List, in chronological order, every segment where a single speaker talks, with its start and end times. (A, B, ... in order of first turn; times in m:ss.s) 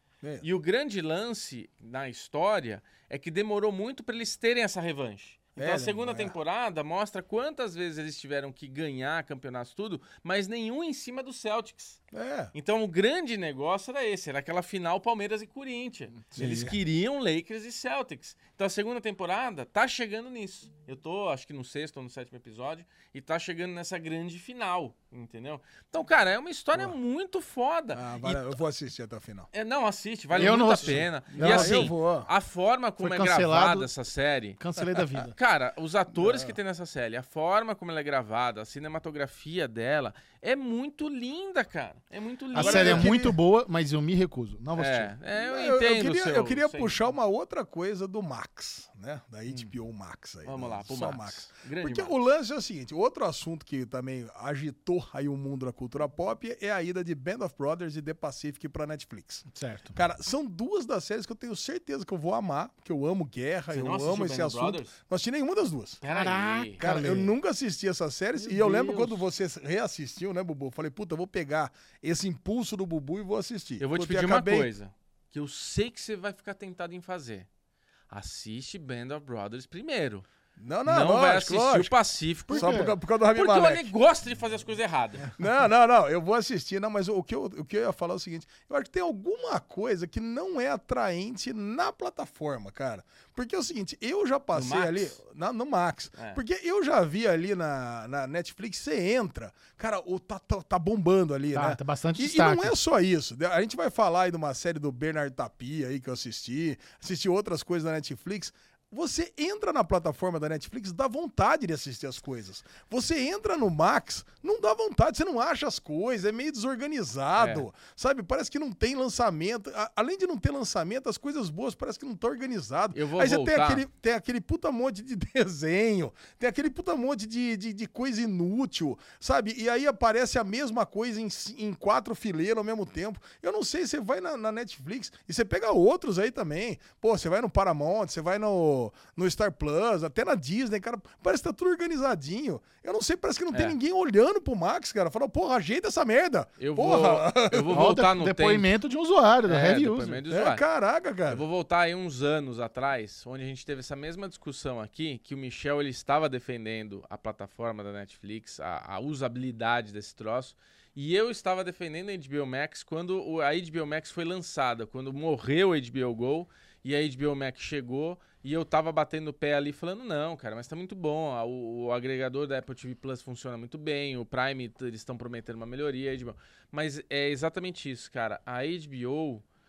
0:00.4-0:12.0 A
0:05.6-0:06.4 B
0:12.1-0:12.5 B
0:12.5-0:28.6 A
0:16.4-0:16.8 B
0:27.9-0:29.5 B
0:29.5-0:34.6 A
0:30.4-0:31.9 C
0:30.4-0:32.3 B
0:33.0-0:33.9 C
0:34.6-0:35.3 C
0:35.3-0:43.1 A
0:36.2-0:36.6 B
0:42.6-0:43.4 B
0:42.6-0:45.1 C
0:44.8-0:47.0 A
0:45.3-1:06.0 B
0:50.4-0:52.1 A
0:59.5-1:00.0 C
1:03.7-1:05.0 A
1:06.0-1:06.8 A
1:06.1-1:07.3 C
1:06.8-1:14.7 B
1:08.4-1:09.2 A
1:13.8-1:17.5 A
1:18.1-1:20.3 A
1:20.6-1:21.9 B
1:20.9-1:25.3 A
1:22.5-1:23.9 B
1:22.5-1:23.0 C
1:25.4-2:27.9 B
1:34.5-1:35.2 A
1:41.5-1:42.8 C
1:57.4-1:57.7 A
2:02.9-2:03.8 A
2:26.6-2:28.7 A
2:27.7-2:30.2 C
2:29.5-2:30.6 A
2:30.3-2:31.4 B
2:31.3-2:59.4 A